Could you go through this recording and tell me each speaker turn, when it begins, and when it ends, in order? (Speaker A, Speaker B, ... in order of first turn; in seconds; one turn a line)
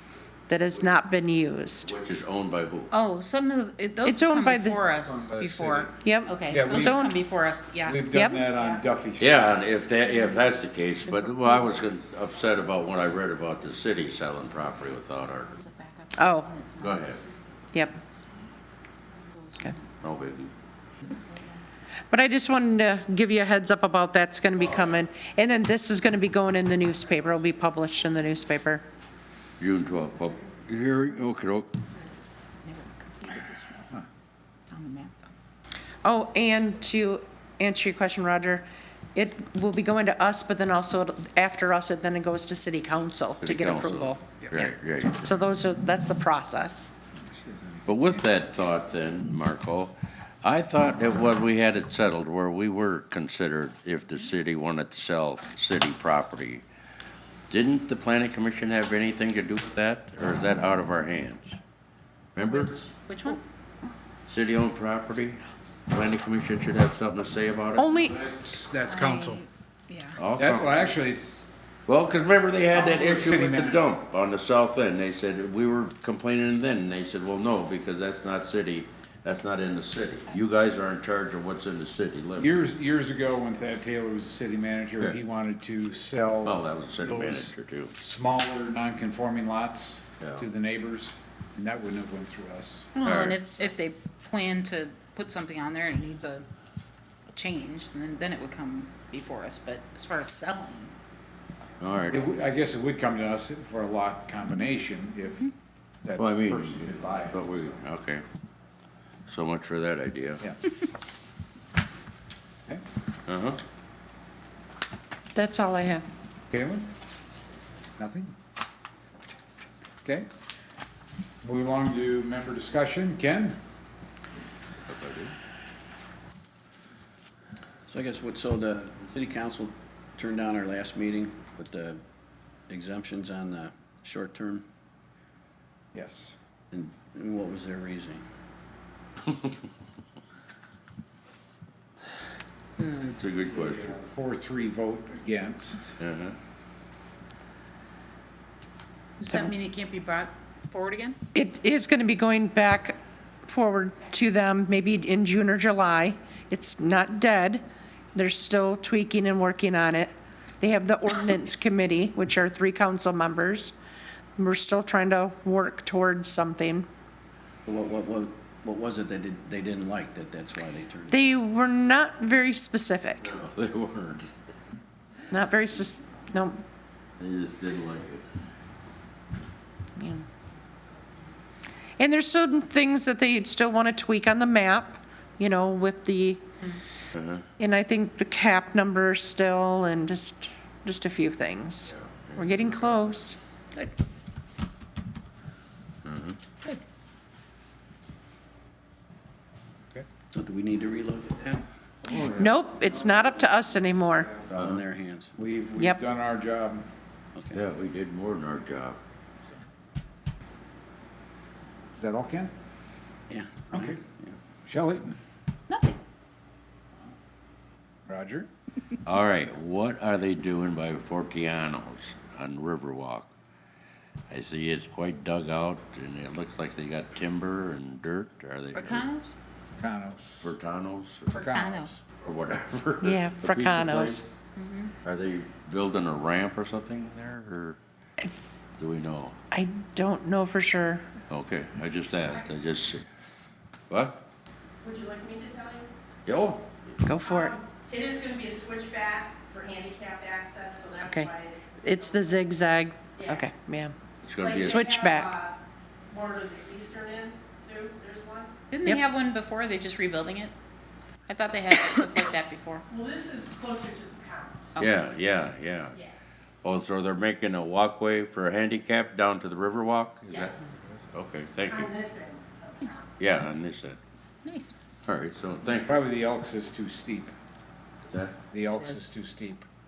Speaker A: 0.5-1.9
Speaker B: 1.8-2.9
Speaker C: 2.9-8.1
Speaker A: 4.0-4.8
Speaker D: 5.0-5.9
Speaker A: 6.0-7.2
Speaker D: 6.5-7.0
Speaker D: 7.8-9.6
Speaker A: 8.1-8.5
Speaker B: 9.2-15.6
Speaker C: 11.2-11.8
Speaker C: 15.5-17.4
Speaker A: 16.1-16.5
Speaker B: 16.8-17.2
Speaker C: 19.2-19.9
Speaker B: 20.0-20.5
Speaker A: 22.1-28.9
Speaker B: 24.6-24.9
Speaker B: 29.6-31.8
Speaker C: 32.6-33.9
Speaker C: 34.7-35.3
Speaker A: 36.0-46.9
Speaker B: 43.4-45.3
Speaker D: 47.2-48.3
Speaker B: 47.9-56.6
Speaker B: 57.5-61.6
Speaker B: 62.4-62.8
Speaker C: 63.1-63.4
Speaker B: 64.3-67.9
Speaker A: 67.8-68.2
Speaker D: 68.1-69.5
Speaker C: 68.9-70.2
Speaker B: 70.2-70.9
Speaker D: 70.4-71.5
Speaker B: 71.9-82.5
Speaker D: 72.7-73.9
Speaker D: 82.4-92.9
Speaker B: 86.4-87.9
Speaker B: 90.2-90.5
Speaker C: 93.0-96.5
Speaker B: 93.0-93.4
Speaker C: 97.3-100.9
Speaker B: 101.8-102.3
Speaker D: 102.1-105.5
Speaker D: 106.0-107.8
Speaker B: 106.2-108.2
Speaker B: 109.3-110.4
Speaker B: 113.3-113.6
Speaker A: 115.3-116.0
Speaker D: 116.5-116.9
Speaker D: 118.0-118.3
Speaker D: 121.4-123.6
Speaker B: 124.9-125.3
Speaker E: 127.9-132.0
Speaker E: 132.7-134.7
Speaker D: 135.9-136.3
Speaker E: 136.7-138.2
Speaker B: 142.9-144.0
Speaker D: 143.5-146.0
Speaker B: 146.0-146.4
Speaker C: 149.2-151.2
Speaker A: 151.3-157.6
Speaker A: 158.2-163.7
Speaker A: 164.4-166.9
Speaker E: 167.7-171.3
Speaker A: 171.1-173.3
Speaker B: 173.2-174.3
Speaker A: 175.3-176.6
Speaker B: 177.2-178.2
Speaker A: 180.0-180.2
Speaker A: 182.0-186.4
Speaker B: 187.1-187.4
Speaker A: 187.6-193.9
Speaker B: 191.9-192.9
Speaker B: 196.1-196.4
Speaker E: 200.3-201.6
Speaker D: 202.1-202.6
Speaker A: 202.2-204.4
Speaker E: 204.5-205.4
Speaker D: 205.4-206.9
Speaker E: 207.4-207.6
Speaker B: 207.5-209.0
Speaker D: 212.0-212.5
Speaker E: 213.3-214.3
Speaker D: 213.7-214.0
Speaker D: 214.7-215.2
Speaker C: 215.7-216.0
Speaker D: 218.1-218.5
Speaker B: 219.1-223.3
Speaker B: 224.3-229.1
Speaker C: 228.7-229.3
Speaker D: 229.8-230.5
Speaker B: 230.4-231.3
Speaker C: 231.3-231.9
Speaker D: 231.3-232.0
Speaker B: 232.2-234.3
Speaker A: 233.0-234.2
Speaker C: 234.6-234.9
Speaker B: 235.0-237.8
Speaker B: 238.8-239.3
Speaker A: 239.5-241.1
Speaker B: 241.3-243.1
Speaker B: 243.9-244.2
Speaker F: 244.8-245.9
Speaker B: 246.3-246.7
Speaker A: 247.0-247.5
Speaker F: 247.2-252.5
Speaker A: 251.0-253.9
Speaker F: 253.1-253.5
Speaker B: 254.2-254.8
Speaker F: 254.4-255.6
Speaker A: 254.6-255.4
Speaker F: 256.1-258.5
Speaker C: 258.7-260.5
Speaker C: 261.3-262.9
Speaker F: 262.9-264.7
Speaker B: 264.8-266.0
Speaker B: 266.6-270.6
Speaker F: 270.3-270.6
Speaker B: 271.1-271.9
Speaker F: 271.7-273.1
Speaker C: 272.8-273.1
Speaker B: 273.2-274.0
Speaker C: 274.4-274.8
Speaker B: 275.1-276.1
Speaker D: 275.8-277.3
Speaker B: 278.1-278.4
Speaker D: 278.5-279.7